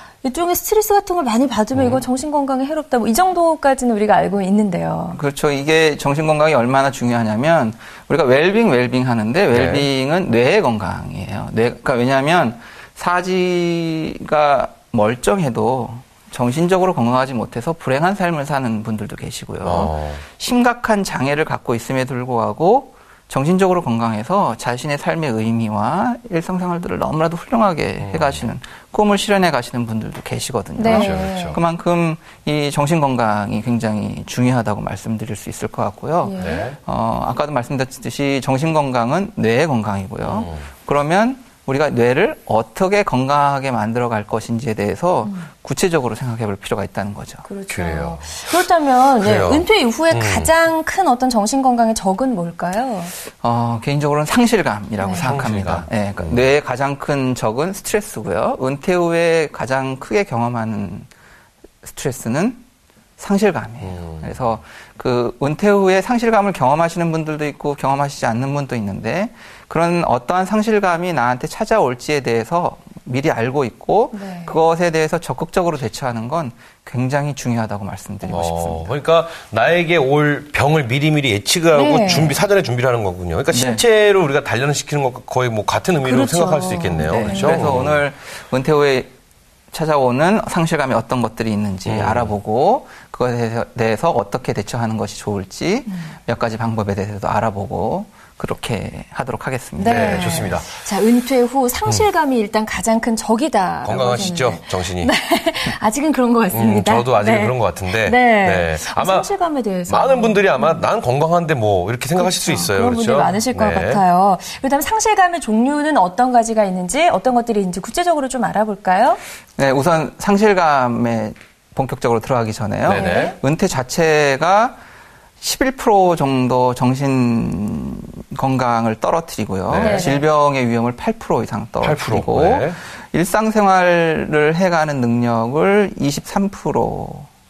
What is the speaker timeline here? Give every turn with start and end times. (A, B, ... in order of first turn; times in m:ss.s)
0:00.2-0:05.2 A
0:01.7-0:02.0 B
0:05.1-0:47.4 C
0:09.5-0:09.8 B
0:19.6-0:20.2 B
0:28.0-0:28.4 B
0:30.8-0:31.6 A
0:30.9-0:31.6 B
0:36.2-0:36.7 A
0:36.4-0:36.8 B
0:40.2-0:40.6 B
0:45.2-0:45.5 A
0:47.4-0:53.1 A
0:47.7-0:48.6 B
0:49.2-0:50.5 B
0:53.4-1:01.1 C
0:55.0-0:55.3 A
0:55.2-0:56.4 B
1:01.8-1:02.6 C
1:03.2-1:18.9 C
1:03.8-1:04.3 B
1:14.1-1:14.6 A
1:18.3-1:28.0 B
1:21.7-1:22.4 A
1:23.5-1:23.8 C
1:26.0-1:27.7 A
1:27.0-1:29.1 C
1:29.7-1:40.5 C
1:31.8-1:32.3 B
1:35.9-1:36.1 A
1:39.8-1:50.8 A
1:39.8-1:40.7 B
1:43.8-1:45.1 B
1:46.5-1:49.3 B
1:49.9-1:54.0 B
1:52.2-1:59.2 A
1:59.6-2:04.8 C
2:02.8-2:03.3 B
2:02.9-2:03.4 A
2:05.4-2:17.3 C
2:09.7-2:10.1 B
2:09.8-2:10.2 A
2:11.8-2:12.8 B